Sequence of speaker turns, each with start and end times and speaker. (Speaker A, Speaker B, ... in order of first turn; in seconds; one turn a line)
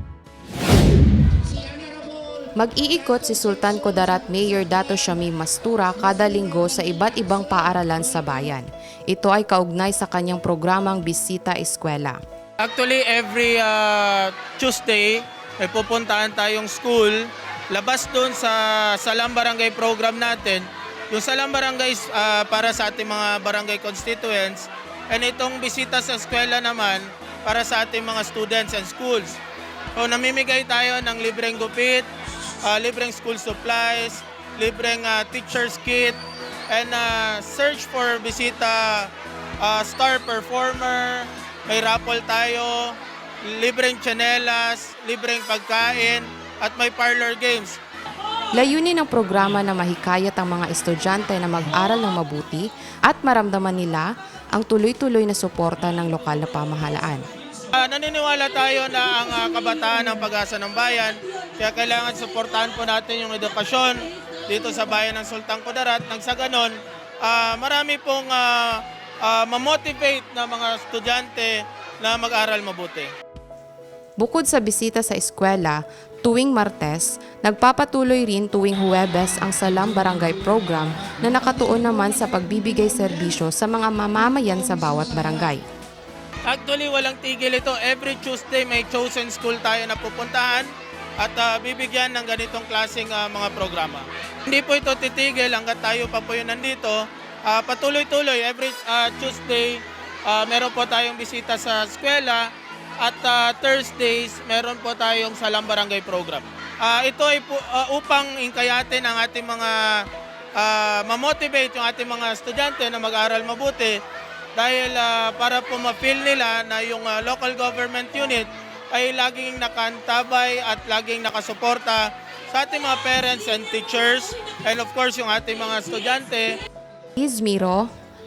Speaker A: 2.5-12.2
Speaker B: 12.6-29.4
Speaker B: 29.9-32.1
Speaker B: 32.6-47.8
Speaker A: 48.5-57.2
Speaker B: 57.7-73.1
Speaker A: 74.2-85.6
Speaker B: 86.5-102.5
Speaker B: 103.0-109.8
Speaker B: 110.6-114.0
Speaker B: 114.5-126.5
Speaker A: 127.2-127.9